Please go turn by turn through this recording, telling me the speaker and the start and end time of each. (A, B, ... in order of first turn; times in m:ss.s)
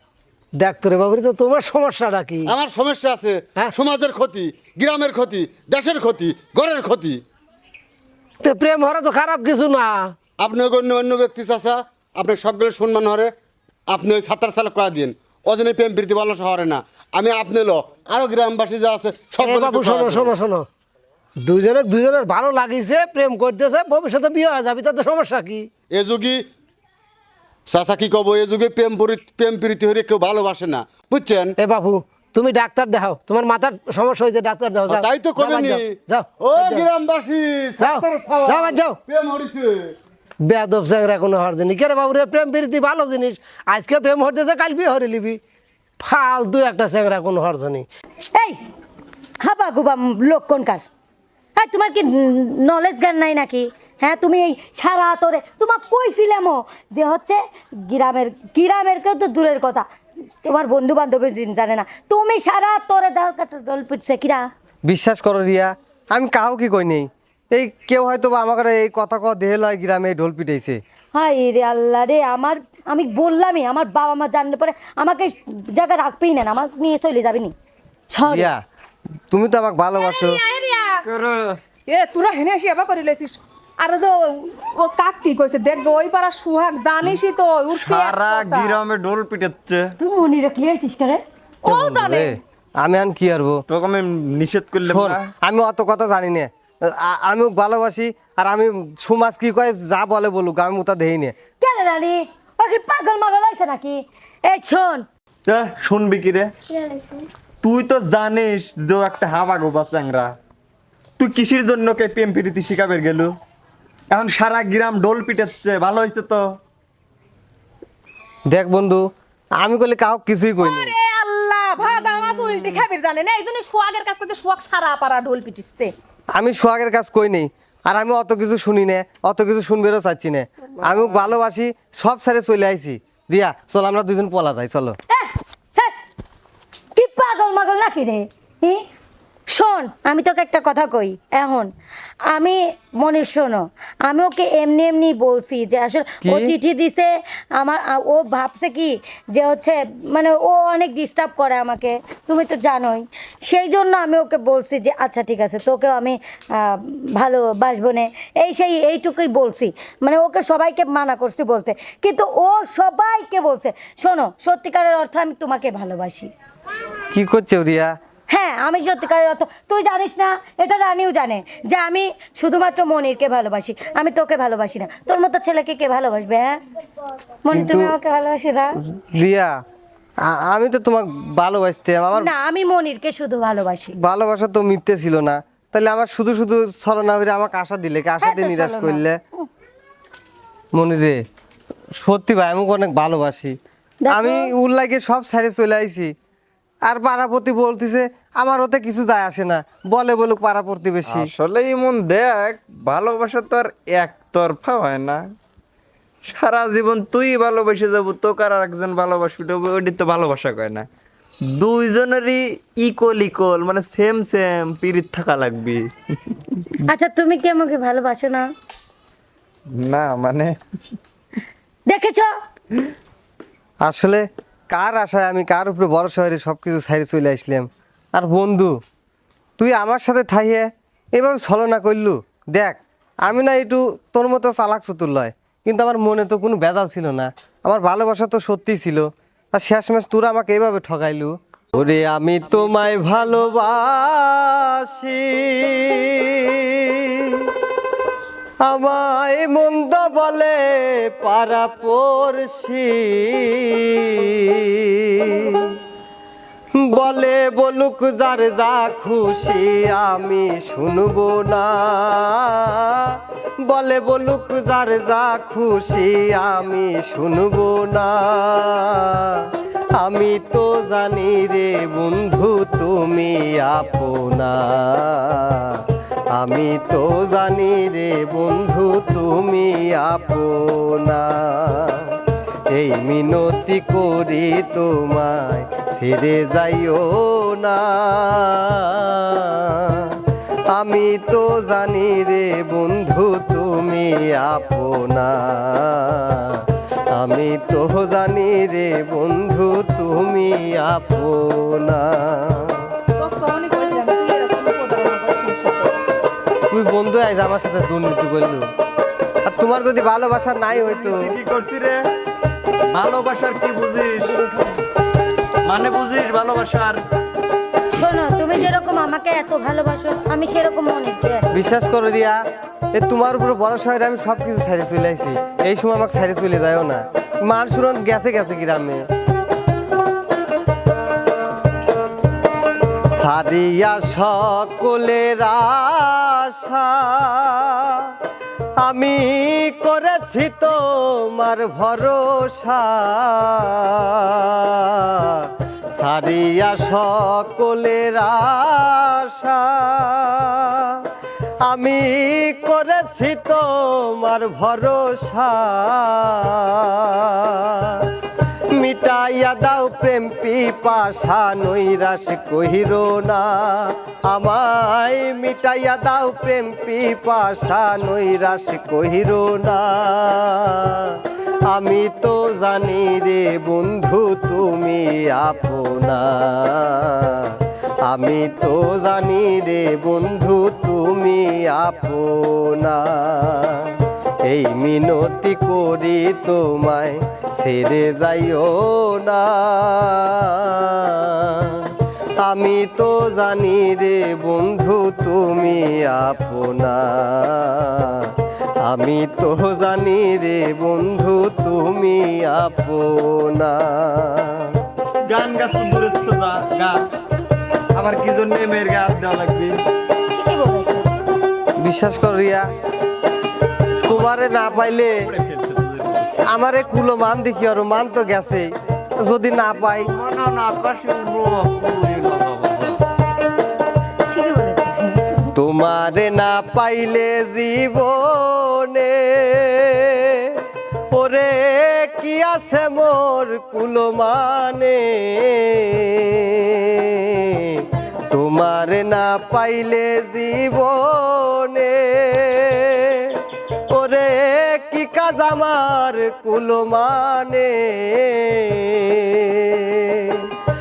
0:00.6-0:02.5 A
0:02.4-0:07.2 B
0:08.4-0:10.1 A
0:10.4-0:13.3 B
0:13.9-0:20.3 B
0:19.4-0:20.7 A
0:21.4-0:25.7 A
0:25.9-0:26.4 B
0:27.7-0:31.5 B
0:31.6-0:36.9 A
0:34.9-0:39.9 B
0:37.8-0:39.0 A
0:40.4-0:45.4 A
0:46.0-0:47.8 A
0:49.4-0:50.8 C
0:51.6-0:59.8 C
1:00.4-1:04.4 C
1:04.8-1:10.8 D
1:11.1-1:17.5 C
1:18.1-1:18.5 C
1:18.2-1:18.6 D
1:19.3-1:20.4 D
1:20.0-1:21.0 E
1:21.0-1:21.6 F
1:21.9-1:28.8 E
1:27.8-1:29.9 F
1:30.0-1:31.2 C
1:31.6-1:32.4 E
1:31.6-1:33.6 D
1:33.7-1:35.3 F
1:34.8-1:41.3 D
1:41.6-1:45.0 C
1:45.5-1:46.5 F
1:47.6-1:50.3 F
1:51.2-1:53.3 F
1:54.1-1:56.4 F
1:58.5-1:59.0 D
1:59.6-2:00.9 D
2:00.6-2:05.9 E
2:06.4-2:15.0 D
2:15.1-2:15.9 C
2:17.0-2:18.8 C
2:19.5-2:21.7 C
2:22.3-2:46.3 C
2:26.2-2:26.5 D
2:47.1-2:47.9 D
2:48.3-2:56.6 C
2:57.4-2:58.8 C
2:57.5-2:57.9 D
2:58.9-2:59.5 D
3:00.3-3:02.3 D
3:02.1-3:03.9 C
3:04.0-3:09.2 D
3:08.2-3:09.0 C
3:10.7-3:11.2 D
3:12.0-3:13.6 D
3:14.0-3:14.5 C
3:14.1-3:16.1 D
3:16.8-3:21.3 D
3:21.0-3:25.2 F
3:26.3-3:30.8 F
3:31.5-3:36.3 F
3:36.9-3:38.4 C
3:39.8-3:40.5 F
3:41.9-3:42.3 C
3:43.8-3:48.7 D
3:49.6-4:07.5 D
4:08.6-4:15.7 D
4:16.8-4:29.5 D
4:30.0-4:35.8 D
4:36.4-4:42.1 D
4:42.7-4:50.1 D
4:50.7-5:02.9 D
5:03.2-5:06.0 E
5:06.7-5:08.6 D
5:09.4-5:11.3 D
5:10.7-5:12.0 F
5:12.9-5:14.3 F
5:15.6-5:17.0 F
5:17.9-5:21.5 C
5:21.5-5:22.4 D
5:22.9-5:29.0 D
5:33.2-5:38.1 D
5:38.8-5:51.0 D
5:51.6-5:58.0 D
5:58.8-6:11.2 D
6:11.7-6:31.9 D
6:32.4-6:38.3 D
6:38.8-6:44.7 D
6:45.3-6:47.0 F
6:47.9-6:49.8 F
6:50.3-6:51.1 C
6:51.8-6:52.6 D
6:54.0-6:55.1 D
6:54.0-6:56.3 F
6:56.5-7:00.1 D
6:59.7-7:03.0 F
7:04.3-7:05.5 C
7:05.5-7:10.5 D
7:11.1-7:23.4 D
7:23.9-7:30.5 D